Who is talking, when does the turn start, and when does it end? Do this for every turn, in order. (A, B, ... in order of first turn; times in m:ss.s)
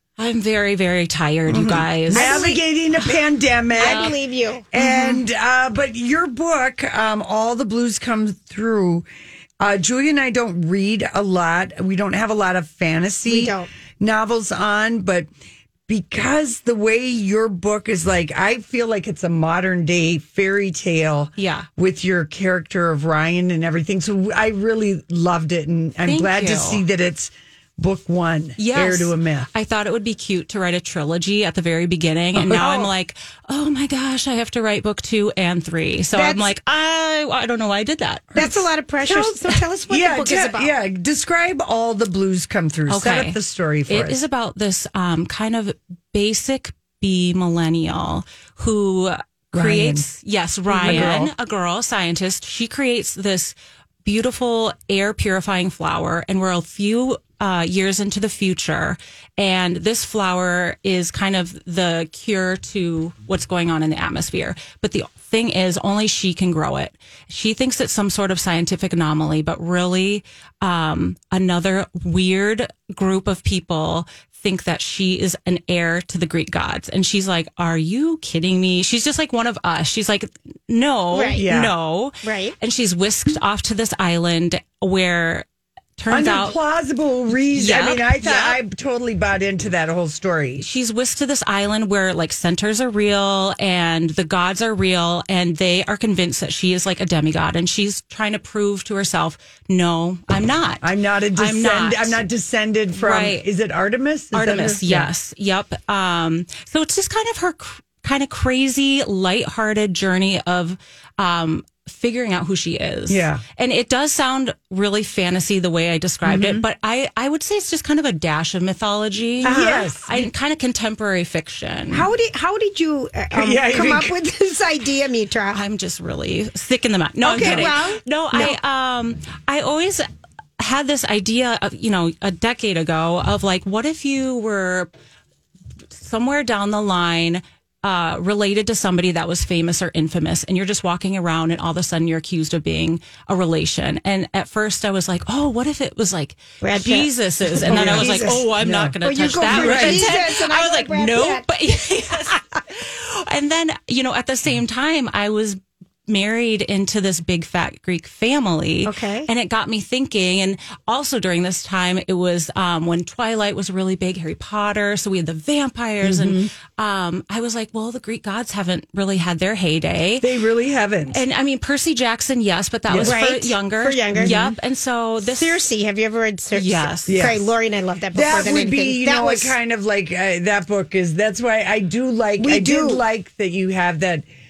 0:00.2-0:03.2 A
0:01.5-0:04.2 B
0:02.1-0:02.6 C
0:03.7-0:04.2 A
0:03.8-0:04.7 C
0:04.7-0:09.1 B
0:04.8-0:05.2 A
0:09.6-0:15.3 B
0:13.3-0:13.7 C
0:15.9-0:29.5 B
0:21.4-0:21.7 A
0:26.0-0:26.8 A
0:28.6-0:38.5 A
0:32.4-0:32.9 B
0:36.1-0:36.6 C
0:38.4-0:44.2 B
0:38.4-0:40.7 C
0:42.9-1:25.5 A
0:49.5-0:50.1 B
0:50.7-0:51.3 B
1:21.1-1:21.4 C
1:21.4-1:21.7 B
1:22.2-1:22.6 C
1:26.0-1:26.6 A
1:26.1-1:30.6 B
1:27.5-1:28.6 A
1:30.6-1:42.2 A
1:40.8-1:45.1 B
1:42.9-1:43.4 A
1:44.3-2:02.1 A
1:53.1-1:53.4 B
1:56.2-1:56.6 B
1:59.4-1:59.9 C
1:59.4-2:00.3 B
2:01.9-2:05.6 C
2:03.3-2:04.2 B
2:05.5-2:10.1 A
2:07.2-2:08.6 C
2:07.4-2:07.6 B
2:10.6-2:14.9 A
2:15.9-2:50.3 A
2:26.6-2:28.5 C
2:27.6-2:30.2 B
2:29.0-2:31.5 C
2:38.8-2:39.3 C
2:46.0-2:46.5 B
2:50.2-2:51.2 B
2:51.1-2:55.7 A
2:52.9-2:53.2 B
2:53.0-2:54.5 C
2:54.2-2:54.5 B
2:55.2-2:59.6 C
2:56.5-2:57.3 A
2:57.1-2:57.5 B
2:58.1-3:04.3 B
3:02.4-3:03.0 C